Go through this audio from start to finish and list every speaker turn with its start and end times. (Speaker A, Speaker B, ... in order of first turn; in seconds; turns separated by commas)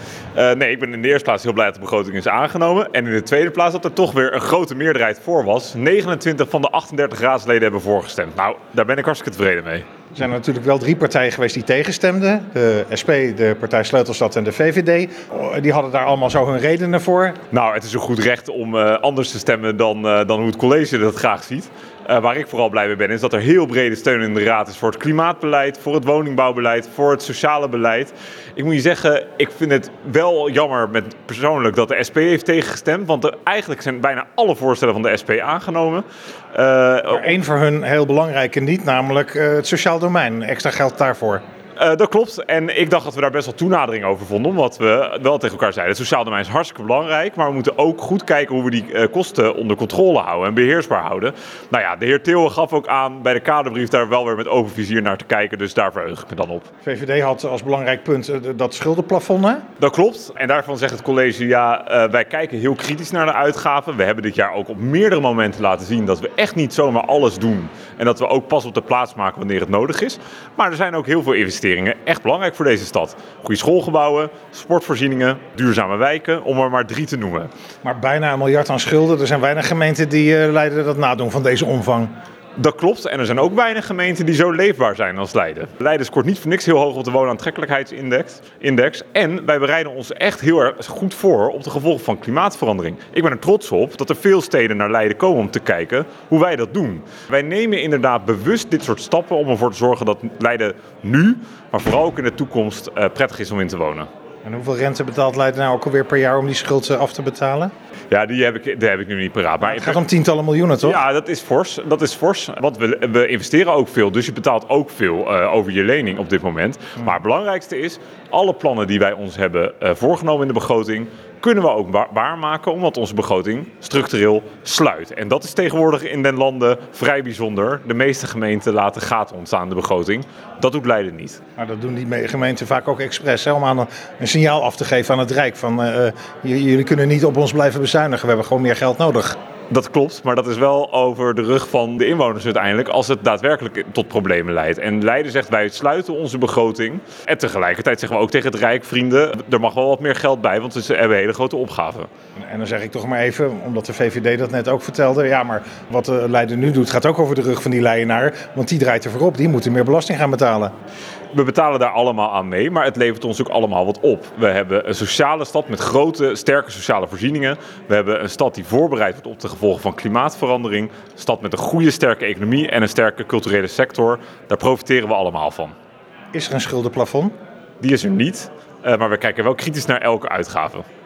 Speaker A: 0.3-9.8, Speaker B: 10.1-17.4, Speaker A: 17.5-37.3, Speaker B: 37.1-41.4, Speaker A: 41.8-56.7, Speaker B: 56.8-59.6, Speaker A: 59.8-77.5, Speaker B: 77.8-82.1, Speaker A: 82.6-104.1, Speaker B: 104.4-107.7, Speaker A: 108.1-110.0, Speaker B: 109.6-111.0, Speaker A: 110.8-131.4, Speaker B: 131.6-139.4, Speaker A: 139.7-152.1, Speaker B: 152.4-160.7, Speaker A: 161.3-175.7, Speaker B: 176.3-177.3, Speaker A: 177.8-180.8